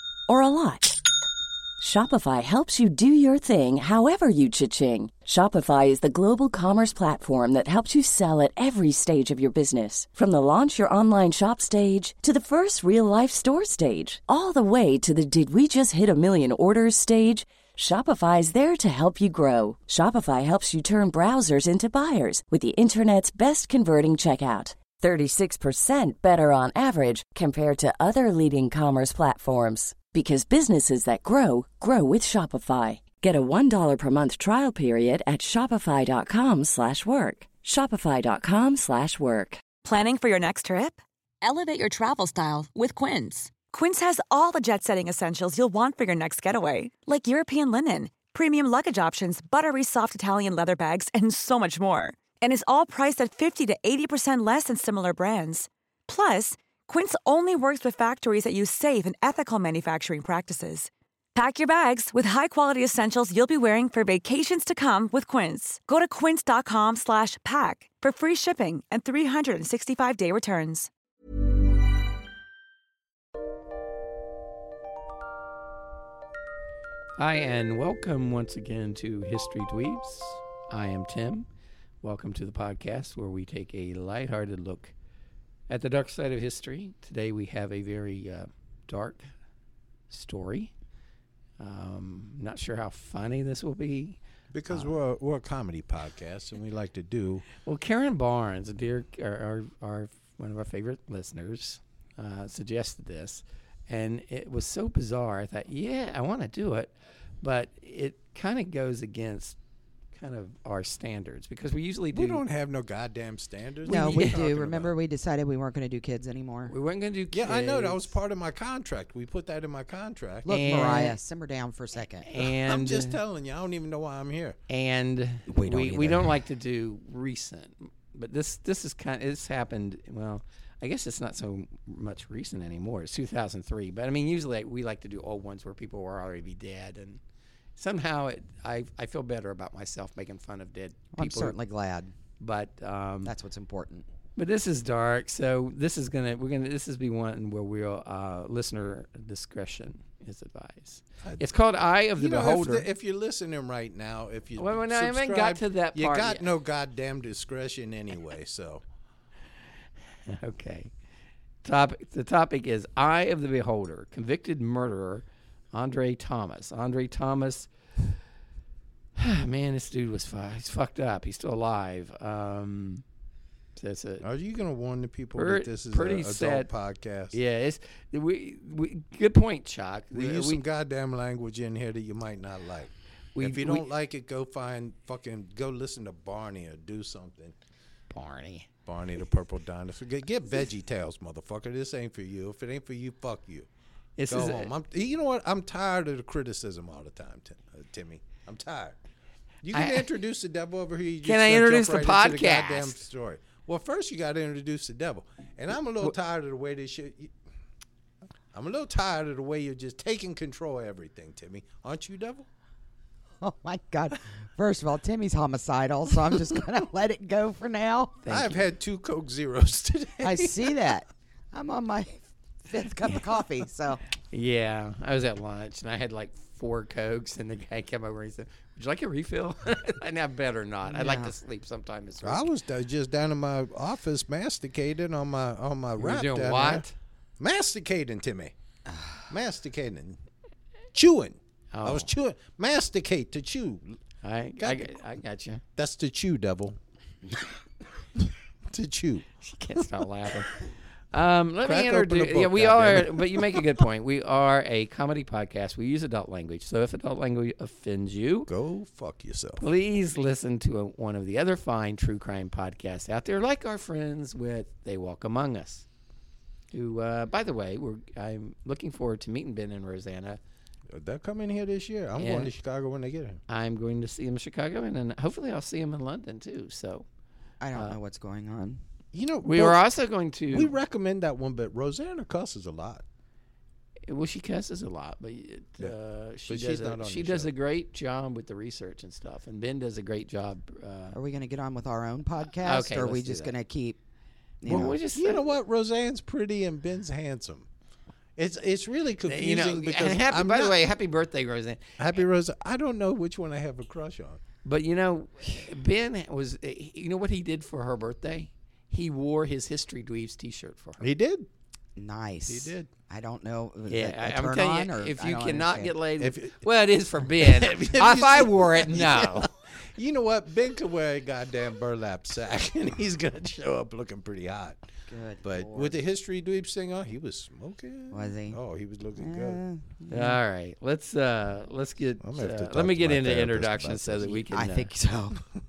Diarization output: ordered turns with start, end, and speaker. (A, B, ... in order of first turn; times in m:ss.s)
0:00.3-0:01.0 A
0:01.8-0:39.7 A
0:39.8-1:10.9 B
1:17.2-1:21.5 C
1:22.0-1:24.9 C
1:25.7-1:29.3 C
1:30.1-1:30.7 C
1:31.6-1:34.2 C
1:34.5-1:37.4 D
1:37.6-1:49.6 C
1:50.1-1:52.4 C
1:52.1-1:55.0 D
1:53.9-1:56.7 E
1:53.9-1:54.4 C
1:56.7-1:58.1 C
1:57.3-2:00.5 D
2:00.5-2:02.3 E
2:00.5-2:01.2 C
2:02.2-2:03.2 C
2:02.4-2:04.6 D
2:04.7-2:17.2 C
2:05.5-2:06.4 E
2:17.8-2:21.6 C
2:21.1-2:22.1 E
2:22.4-2:23.3 C
2:23.3-2:24.1 E
2:24.4-2:32.9 C
2:32.2-2:38.8 D
2:34.6-2:36.5 C
2:40.3-2:40.9 C
2:41.6-2:47.7 C
2:49.2-2:53.0 C
2:53.8-2:54.2 C
2:54.2-2:57.4 D
2:55.4-2:56.7 C
2:57.3-3:00.6 C
3:00.1-3:07.6 D
3:03.4-3:03.8 C
3:08.1-3:08.7 C
3:08.9-3:13.7 D
3:14.2-3:14.7 C
3:14.3-3:19.0 D
3:19.6-3:27.3 D
3:19.7-3:20.1 C
3:21.2-3:23.0 C
3:28.5-3:32.5 D
3:33.4-3:38.2 E
3:38.2-3:38.6 C
3:38.3-3:40.8 D
3:40.2-3:44.0 E
3:44.3-3:52.5 C
3:50.9-3:51.3 E
3:52.2-3:56.9 D
3:56.0-3:57.0 C
3:57.4-3:58.5 D
3:58.9-3:59.2 E
3:59.3-4:00.2 D
4:00.9-4:04.0 D
4:01.7-4:02.1 C
4:04.2-4:05.6 C
4:04.6-4:04.9 D
4:05.8-4:06.8 D
4:08.2-4:09.3 D
4:09.4-4:10.6 C
4:11.1-4:18.5 C
4:11.6-4:13.8 D
4:18.5-4:19.7 D
4:19.6-4:25.8 C
4:26.7-4:30.4 C
4:30.9-4:33.4 D
4:32.2-4:32.5 C
4:33.5-4:37.1 C
4:37.6-4:38.8 E
4:39.1-4:39.8 D
4:39.5-4:40.7 C
4:40.5-4:43.0 D
4:44.1-4:51.2 C
4:46.5-4:47.5 D
4:51.1-4:54.0 E
4:52.6-4:53.5 C
4:54.6-4:55.0 E
4:54.7-4:55.4 C
4:54.8-4:57.7 D
4:58.4-5:00.8 D
4:59.2-5:02.2 C
5:02.0-5:04.4 D
5:04.6-5:11.1 C
5:11.0-5:11.5 D
5:12.0-5:16.0 E
5:12.5-5:12.9 D
5:13.9-5:19.5 C
5:16.2-5:16.6 D
5:17.4-5:24.8 D
5:25.1-5:26.0 E
5:25.4-5:29.6 D
5:28.1-5:28.6 E
5:29.2-5:30.4 E
5:30.1-5:34.9 C
5:32.2-5:34.4 D
5:34.3-5:35.4 E